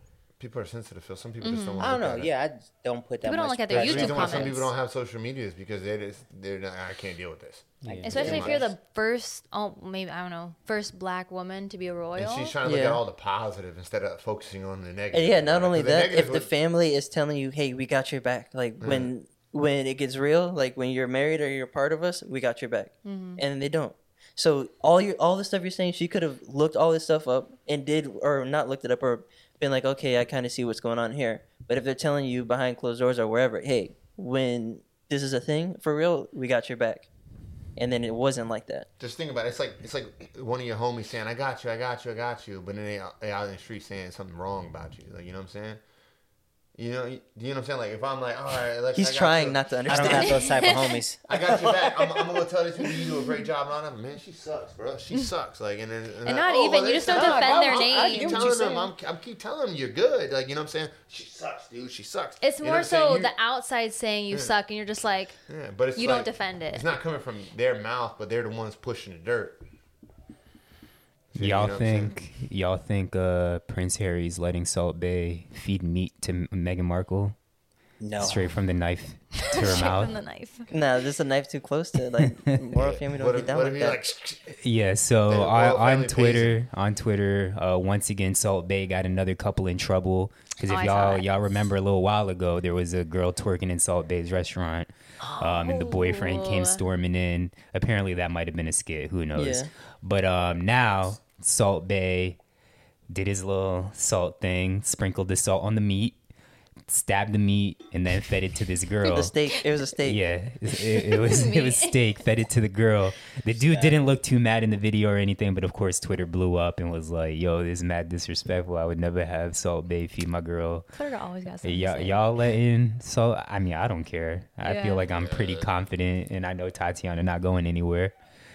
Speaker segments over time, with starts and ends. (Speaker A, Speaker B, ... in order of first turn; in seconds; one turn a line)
Speaker A: 0.4-2.3
Speaker B: 1.4-1.9
Speaker C: 1.8-4.7
Speaker B: 3.2-4.7
Speaker A: 3.7-8.7
Speaker D: 7.8-8.1
Speaker C: 7.9-8.7
Speaker B: 8.0-12.5
Speaker A: 12.2-16.5
Speaker E: 12.6-13.0
Speaker E: 15.1-37.1
Speaker A: 18.8-19.1
Speaker B: 23.0-23.4
Speaker E: 37.8-38.9
Speaker A: 39.0-45.8
Speaker A: 46.7-50.2
Speaker E: 48.9-50.5
Speaker C: 49.9-52.3
Speaker B: 50.1-51.0
Speaker A: 51.3-63.3
Speaker B: 56.2-58.4
Speaker C: 57.1-58.9
Speaker B: 62.4-65.3
Speaker A: 65.5-69.6
Speaker B: 65.9-66.8
Speaker A: 71.3-72.1
Speaker D: 71.4-77.3
Speaker C: 78.0-78.5
Speaker D: 78.2-80.2
Speaker B: 79.4-80.7
Speaker E: 80.7-84.0
Speaker D: 82.2-82.5
Speaker A: 82.8-84.5
Speaker D: 84.6-102.4
Speaker A: 85.3-86.6
Speaker B: 90.6-91.2
Speaker B: 95.2-96.8
Speaker E: 99.3-99.7
Speaker D: 103.1-106.2
Speaker D: 106.9-109.3
Speaker E: 109.0-110.2
Speaker D: 110.0-120.9
Speaker B: 111.0-112.0
Speaker C: 113.6-114.0
Speaker B: 120.9-122.2
Speaker D: 121.6-128.1
Speaker B: 124.6-125.1
Speaker A: 125.1-125.7